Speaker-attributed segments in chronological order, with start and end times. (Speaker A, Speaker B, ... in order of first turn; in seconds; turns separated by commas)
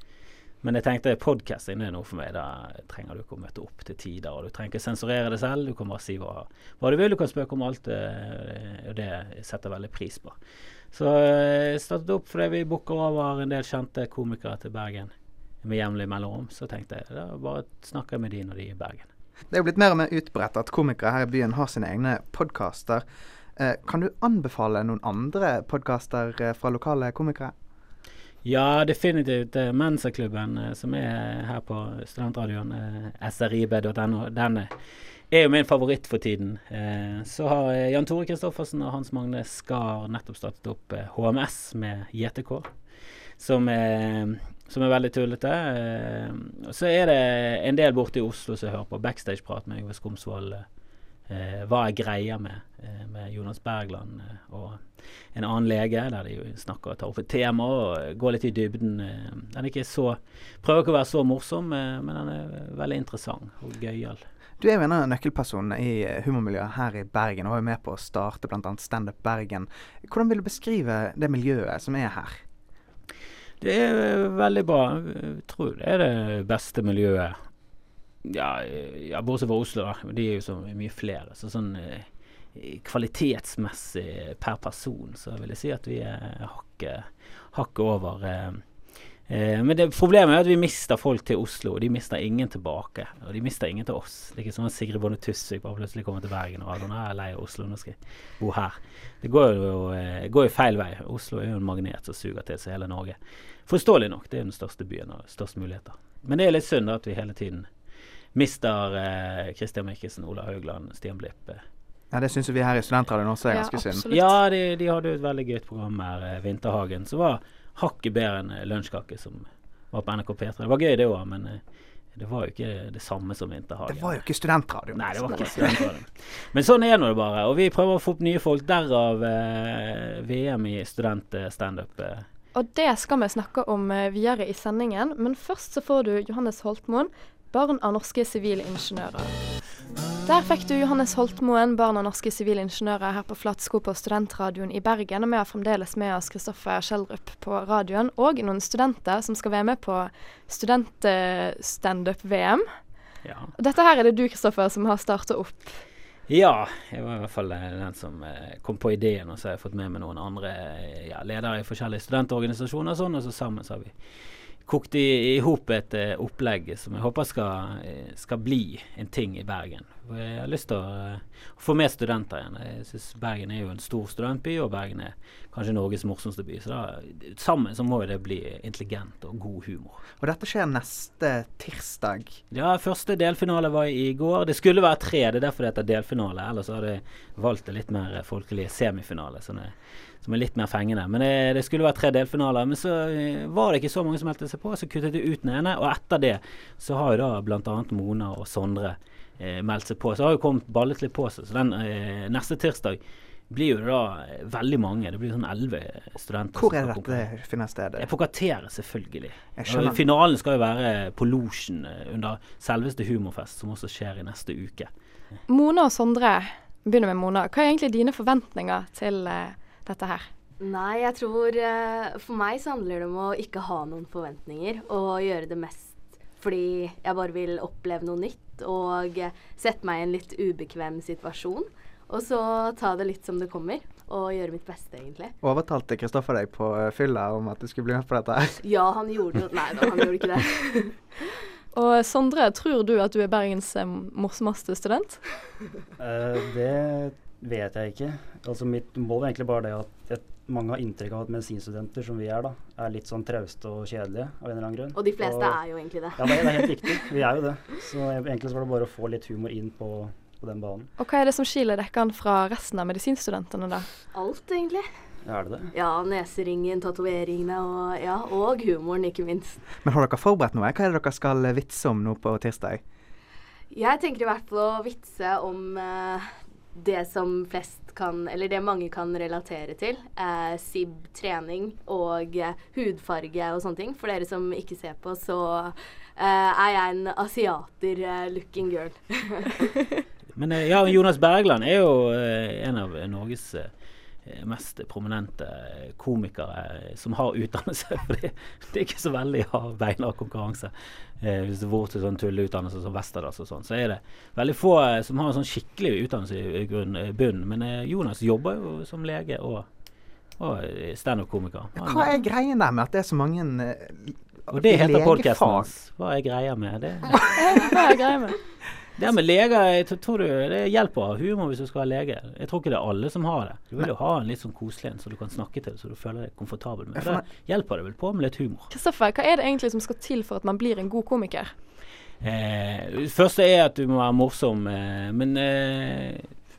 Speaker A: 0.6-10.4, Speaker A: 10.9-15.1, Speaker A: 15.6-19.1, Speaker B: 19.5-23.1, Speaker B: 23.6-27.5, Speaker A: 28.4-34.7, Speaker A: 35.3-42.7, Speaker A: 43.4-50.6, Speaker A: 51.3-54.8, Speaker A: 55.3-64.2, Speaker B: 64.6-72.4, Speaker A: 73.6-77.4, Speaker A: 78.2-88.6, Speaker A: 89.3-103.2, Speaker A: 103.7-107.7, Speaker A: 108.3-111.6, Speaker B: 112.1-114.1, Speaker C: 113.5-114.3, Speaker A: 114.1-121.6, Speaker A: 122.2-124.2, Speaker B: 123.9-125.9, Speaker A: 124.9-132.2, Speaker C: 132.6-139.3, Speaker C: 140.3-152.7, Speaker A: 153.2-153.5, Speaker C: 153.6-155.8, Speaker A: 156.3-163.9, Speaker A: 164.7-180.0, Speaker B: 180.2-182.4, Speaker A: 182.5-203.0, Speaker A: 203.5-207.3, Speaker B: 206.6-208.1, Speaker A: 208.0-214.9, Speaker B: 209.6-210.0, Speaker C: 215.5-220.3, Speaker D: 220.6-235.3, Speaker B: 235.4-238.6, Speaker D: 238.6-241.0, Speaker C: 241.7-245.2, Speaker E: 246.0-255.6, Speaker D: 254.9-256.7, Speaker E: 256.1-260.9, Speaker C: 261.0-263.9, Speaker D: 264.1-264.9, Speaker E: 265.2-265.7, Speaker D: 265.7-269.6, Speaker B: 269.8-272.8, Speaker D: 273.7-289.7, Speaker A: 290.4-293.7, Speaker A: 294.3-309.7, Speaker A: 310.4-312.1, Speaker B: 311.8-315.7, Speaker A: 314.5-317.7, Speaker C: 317.4-318.4, Speaker A: 319.0-328.7, Speaker B: 327.0-327.2, Speaker C: 328.7-331.5, Speaker A: 332.2-336.3